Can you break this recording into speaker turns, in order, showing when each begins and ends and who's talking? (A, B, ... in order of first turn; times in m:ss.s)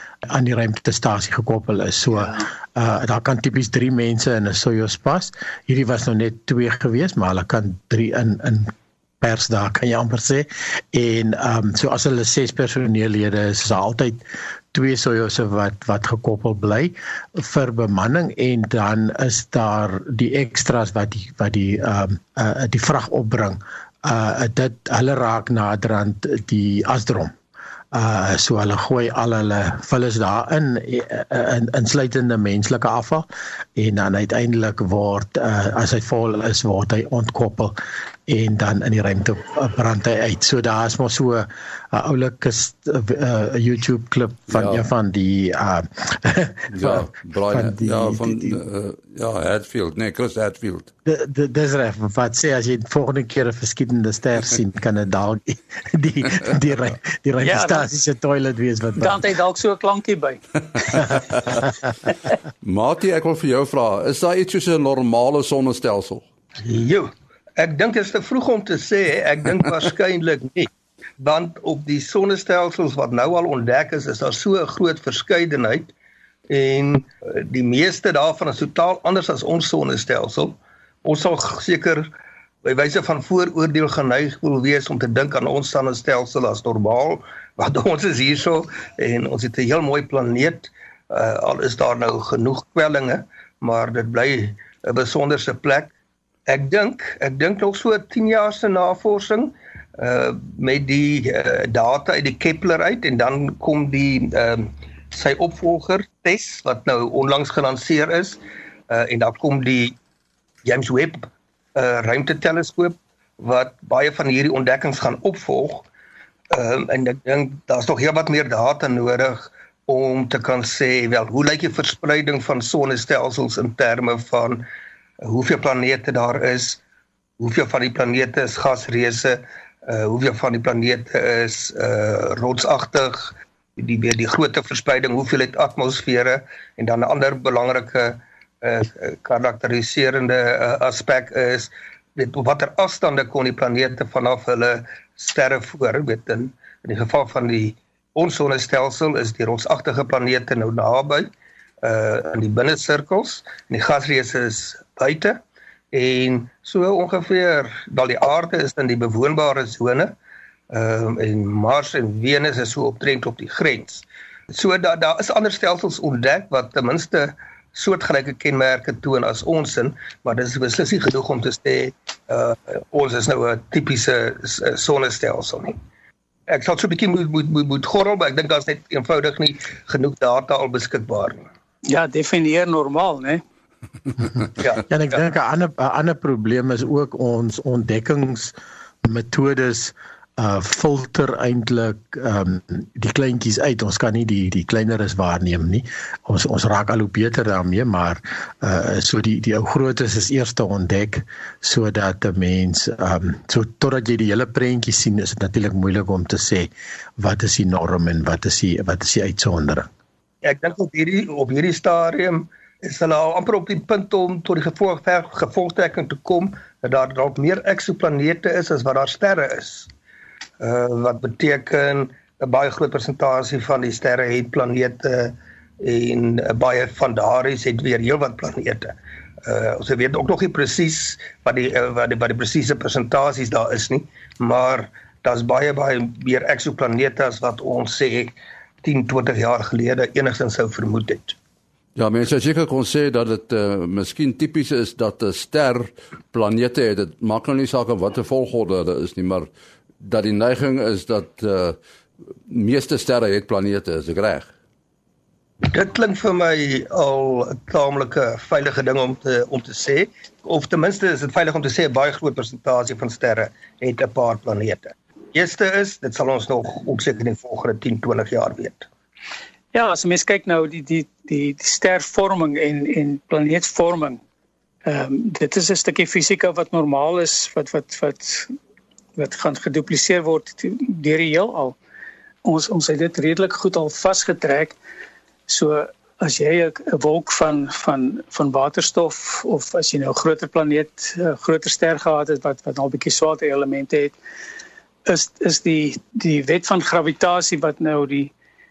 0:00.3-0:27.3 A
0:27.9-0:37.8 A
0:38.3-0:48.6 A
0:44.5-0:44.8 B
0:46.7-0:50.9 B
0:51.0-0:59.2 A
0:57.4-0:57.9 C
0:59.0-1:01.1 C
1:02.6-1:06.2 B
1:06.6-1:15.9 D
1:16.5-1:22.1 D
1:22.6-1:35.9 D
1:36.5-1:48.4 D
1:48.9-1:50.0 D
1:50.6-1:55.8 D
1:56.5-2:04.6 D
2:05.2-2:06.8 D
2:07.4-2:31.3 D
2:31.8-2:35.4 D
2:35.9-2:40.1 D
2:40.7-2:55.8 D
2:56.5-3:01.4 D
3:01.8-3:03.4 C
3:04.8-3:29.9 A
3:30.4-3:39.9 D
3:40.6-4:01.4 D
4:02.0-4:09.5 B
4:10.0-4:11.8 B
4:12.5-4:14.5 B
4:15.7-4:28.9 D
4:29.7-4:34.2 C
4:34.8-4:38.5 C
4:39.2-4:41.8 C
4:42.4-4:44.8 C
4:45.5-4:54.2 C
4:55.1-4:58.3 C